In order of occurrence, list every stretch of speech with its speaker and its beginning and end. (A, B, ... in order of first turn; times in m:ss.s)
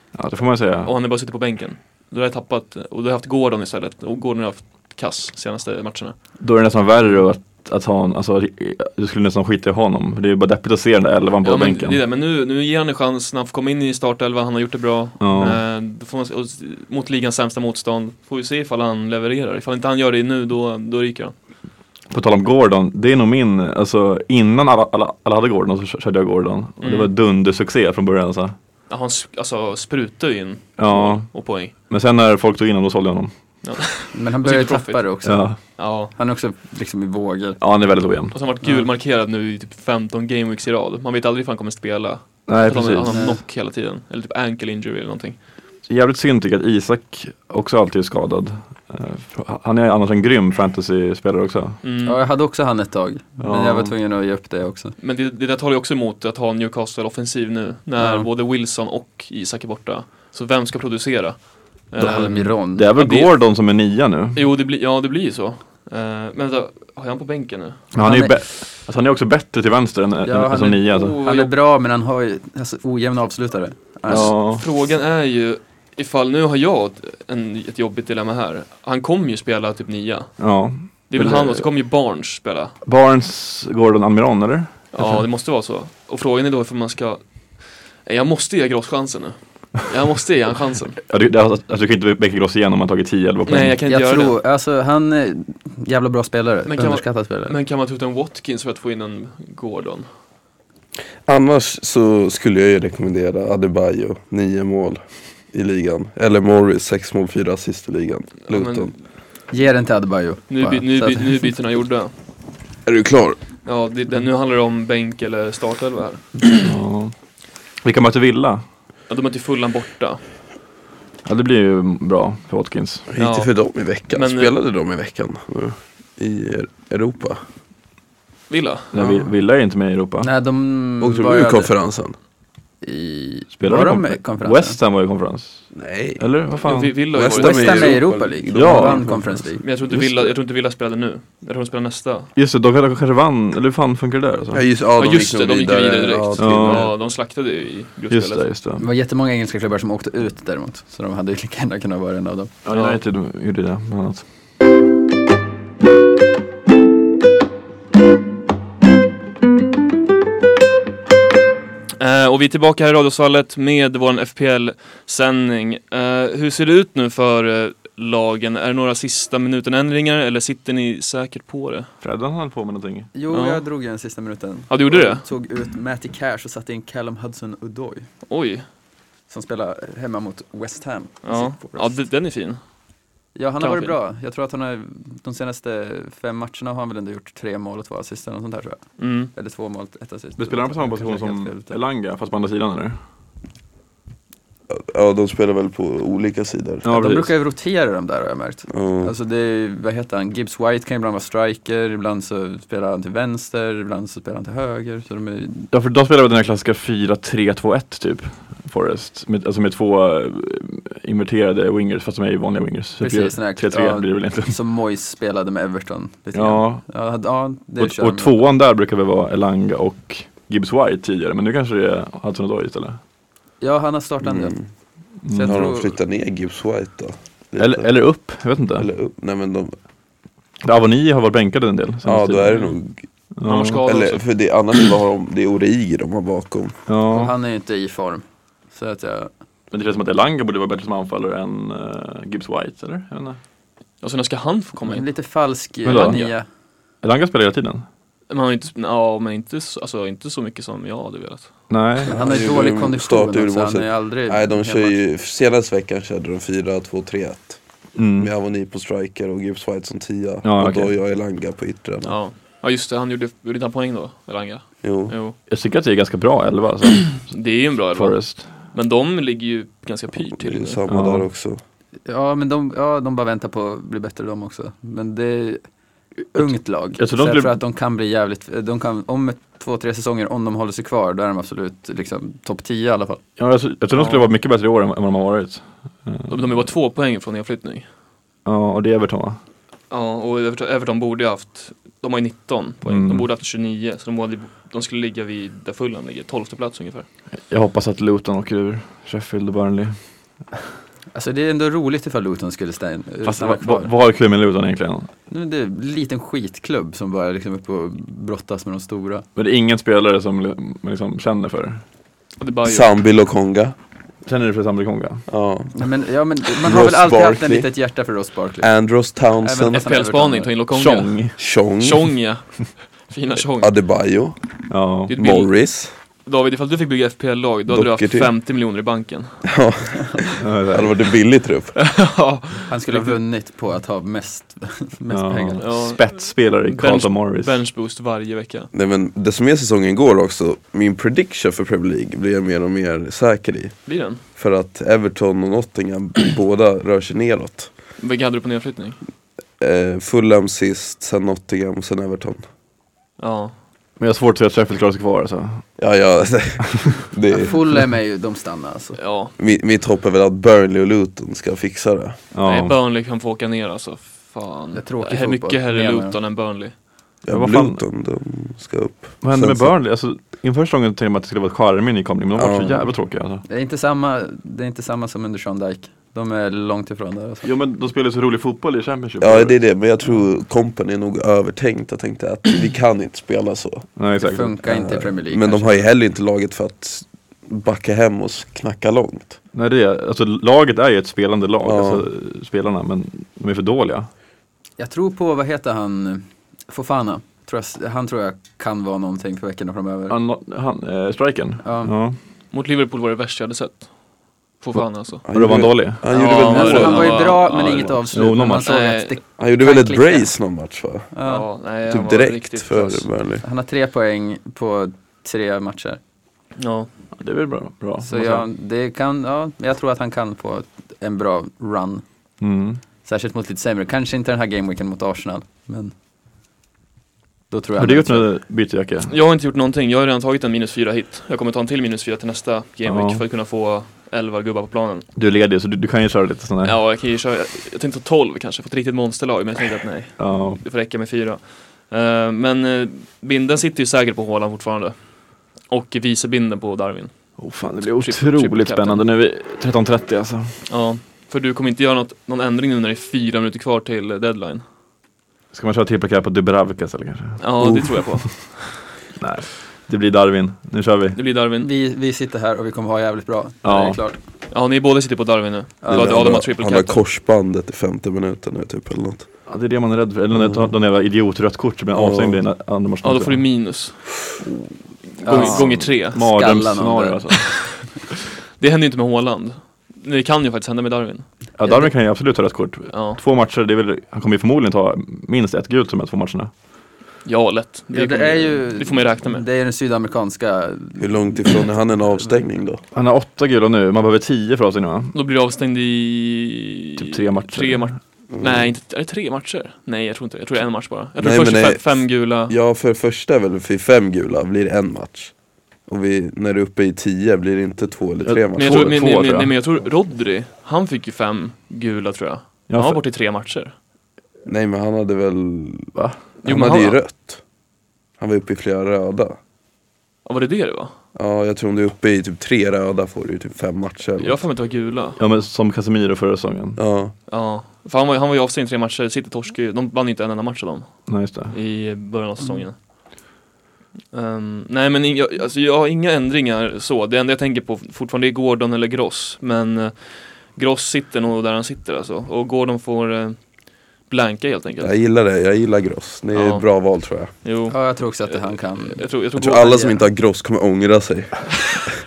0:00.1-0:00.9 A
0:00.8-0:06.1 B
0:06.4-0:12.0 A
0:11.4-0:21.3 B
0:15.2-0:15.6 A
0:22.1-0:28.5 A
0:26.8-0:27.1 B
0:28.9-0:31.7 B
0:30.8-0:33.3 A
0:33.6-0:35.1 B
0:34.1-0:37.6 C
0:35.2-0:35.6 A
0:35.7-0:36.1 B
0:37.6-0:38.3 A
0:38.3-0:45.4 B
0:42.5-0:43.1 A
0:43.0-0:43.4 C
0:45.8-0:51.8 A
0:51.8-0:52.2 B
0:52.0-0:54.9 C
0:53.4-0:53.9 A
0:55.0-1:03.4 B
0:58.0-0:58.3 C
1:02.0-1:04.4 A
1:02.0-1:02.9 C
1:04.3-1:07.9 B
1:07.9-1:11.2 A
1:08.0-1:08.4 C
1:10.2-1:14.3 C
1:11.2-1:11.5 B
1:14.1-1:14.6 A
1:14.1-1:20.5 B
1:20.4-1:21.7 A
1:21.1-1:22.7 B
1:22.8-1:25.1 A
1:24.9-1:31.0 B
1:31.1-1:33.8 A
1:33.4-1:34.4 B
1:33.8-1:37.5 C
1:36.7-1:40.1 B
1:41.2-1:48.9 D
1:48.5-1:49.0 B
1:49.5-1:51.5 C
1:50.5-1:52.1 B
1:52.8-1:53.4 D
1:53.6-1:56.6 B
1:56.6-1:57.1 A
1:57.8-1:58.6 A
1:59.1-2:00.2 B
2:01.2-2:03.1 A
2:03.1-2:07.4 D
2:03.2-2:03.5 B
2:04.1-2:04.5 B
2:08.5-2:08.9 B
2:08.9-2:10.3 A
2:09.0-2:09.3 D
2:10.2-2:11.7 C
2:11.0-2:12.2 D
2:12.8-2:14.8 C
2:13.6-2:17.0 A
2:15.7-2:16.2 D
2:16.6-2:18.0 B
2:17.1-2:19.4 D
2:17.3-2:19.6 C
2:18.5-2:20.3 A
2:19.6-2:22.3 B
2:22.3-2:24.6 A
2:24.5-2:26.9 D
2:25.0-2:28.4 B
2:26.4-2:26.9 A
2:28.1-2:28.8 A
2:28.8-2:32.5 C
2:32.6-2:34.2 A
2:32.7-2:33.0 B
2:42.0-2:51.9 B
2:52.0-2:53.1 A
2:53.1-2:58.1 C
2:53.3-2:53.6 B
2:54.7-2:55.2 B
2:58.3-2:58.6 B
2:59.3-3:02.0 C
3:01.2-3:02.6 B
3:03.3-3:11.7 C
3:03.6-3:03.9 B
3:09.0-3:09.3 B
3:10.4-3:13.0 A
3:14.7-3:17.2 D
3:16.8-3:17.3 A
3:16.8-3:25.7 C
3:18.7-3:19.1 D
3:25.7-3:34.6 A
3:33.0-3:38.4 C
3:36.3-3:36.8 A
3:37.8-3:43.0 A
3:43.6-3:44.6 C
3:44.2-3:44.7 D
3:45.2-3:45.6 A
3:45.3-3:46.0 C
3:45.4-3:47.9 D
3:47.6-3:48.9 A
3:48.8-3:49.8 D
3:50.6-3:52.5 A
3:52.0-3:53.0 D
3:53.4-3:53.8 A
3:53.4-3:54.3 B
3:53.8-3:56.8 D
3:56.9-3:57.3 A
3:57.1-3:59.3 C
3:59.7-4:03.4 A
4:04.0-4:05.1 B
4:04.8-4:06.5 C
4:05.8-4:06.3 B
4:05.8-4:06.2 A
4:07.0-4:07.8 A
4:08.3-4:11.5 B
4:11.7-4:12.1 A
4:12.1-4:15.0 C
4:12.1-4:17.6 D
4:18.0-4:18.3 A
4:18.2-4:22.2 D
4:20.4-4:20.9 A
4:22.0-4:25.4 B
4:24.8-4:25.1 D
4:25.5-4:27.3 A
4:27.2-4:30.8 B
4:27.9-4:28.4 A
4:30.3-4:31.6 D
4:30.9-4:31.2 A
4:32.0-4:35.6 C
4:36.3-4:43.2 C
4:36.3-4:37.6 A
4:43.4-4:46.6 A
4:43.9-4:44.2 B
4:46.3-4:47.8 B
4:48.4-4:49.4 A
4:49.9-4:57.0 B
4:52.8-4:53.2 A
4:57.4-5:00.0 A
5:01.1-5:03.9 C
5:03.2-5:05.1 A
5:05.3-5:09.2 C
5:09.4-5:11.8 A
5:12.4-5:12.9 B
5:12.6-5:13.7 D
5:14.2-5:15.2 A
5:15.3-5:15.8 D
5:15.7-5:18.7 C
5:16.6-5:17.7 D
5:18.6-5:19.9 D
5:19.4-5:20.5 C
5:19.7-5:23.7 B
5:20.7-5:21.4 A
5:21.4-5:22.1 D
5:23.4-5:24.4 D
5:24.7-5:25.1 A
5:25.1-5:29.5 B
5:25.1-5:25.9 D
5:27.7-5:28.3 D
5:29.5-5:31.7 D
5:30.4-5:30.9 A
5:31.8-5:33.2 B
5:32.7-5:35.6 C
5:35.1-5:37.6 A
5:35.6-5:38.7 B
5:38.7-5:47.7 D
5:43.8-5:44.2 B
5:48.0-5:49.0 B
5:49.6-5:52.4 D
5:53.2-5:53.5 B
5:54.0-5:55.7 A
5:55.8-5:57.5 D
5:57.3-5:59.0 C
5:59.0-5:59.3 B
5:59.4-6:02.2 D
6:02.3-6:02.8 A
6:02.4-6:06.8 B
6:04.7-6:06.2 C
6:07.2-6:09.7 D
6:07.3-6:07.8 A
6:09.2-6:13.4 A
6:12.4-6:12.8 D
6:13.5-6:17.5 C
6:17.4-6:19.6 A
6:19.2-6:23.9 D
6:24.0-6:24.5 A
6:24.2-6:25.9 C
6:24.6-6:29.4 D
6:29.5-6:34.1 A
6:31.6-6:32.0 D
6:34.8-6:40.2 C
6:40.1-6:42.2 A
6:41.6-6:41.9 C
6:42.5-6:45.2 B
6:44.7-6:46.0 A
6:45.2-6:47.9 D
6:46.1-6:49.2 B
6:46.1-6:50.3 C
6:48.1-6:48.7 A
6:49.4-6:51.1 D
6:51.1-6:51.4 C
6:51.2-6:53.1 B
6:51.8-6:53.4 D
6:53.4-6:56.0 C
6:56.6-6:56.9 B
6:57.1-6:58.4 A
6:58.0-7:02.0 C
7:02.4-7:02.8 A
7:03.0-7:05.9 C
7:07.5-7:08.3 C
7:07.8-7:09.1 A
7:09.1-7:15.0 B
7:12.8-7:13.2 A
7:15.2-7:16.8 A
7:16.6-7:27.1 B
7:20.2-7:20.6 A
7:27.4-7:30.6 A
7:27.8-7:29.0 B
7:30.6-7:34.6 B
7:35.5-7:37.4 A
7:37.4-7:38.8 B
7:37.6-7:37.9 D
7:39.2-7:41.2 A
7:41.1-7:41.7 B
7:41.6-7:44.2 C
7:43.6-7:44.0 A
7:44.5-7:47.0 B
7:45.8-7:46.3 C
7:45.9-7:49.3 D
7:49.5-7:53.5 A
7:50.3-7:50.6 D
7:51.9-7:52.4 D
7:53.0-7:54.3 B
7:55.2-7:56.2 B
7:55.2-7:57.2 C
7:55.2-7:57.5 A
7:57.3-7:57.9 B
7:58.6-8:01.3 B
8:01.6-8:06.5 A
8:01.6-8:01.9 C
8:02.9-8:03.2 B
8:07.2-8:09.4 B
8:07.9-8:11.6 C
8:11.0-8:12.8 D
8:12.9-8:15.1 A
8:15.1-8:22.5 B
8:17.0-8:18.0 A
8:18.4-8:18.7 D
8:21.2-8:25.3 D
8:25.8-8:29.0 D
8:28.2-8:29.6 A
8:28.6-8:33.7 B
8:32.7-8:33.0 A
8:34.4-8:37.4 D
8:36.4-8:37.0 B
8:38.2-8:39.4 D
8:40.2-8:40.9 B
8:41.1-8:44.4 D
8:44.2-8:45.2 B
8:45.2-8:46.8 A
8:46.8-8:47.1 D
8:47.3-8:52.8 B
8:51.1-8:51.5 A
8:54.1-9:05.0 B
9:04.8-9:07.3 D
9:06.3-9:06.6 B
9:07.3-9:09.7 B
9:07.7-9:10.0 C
9:09.4-9:11.9 D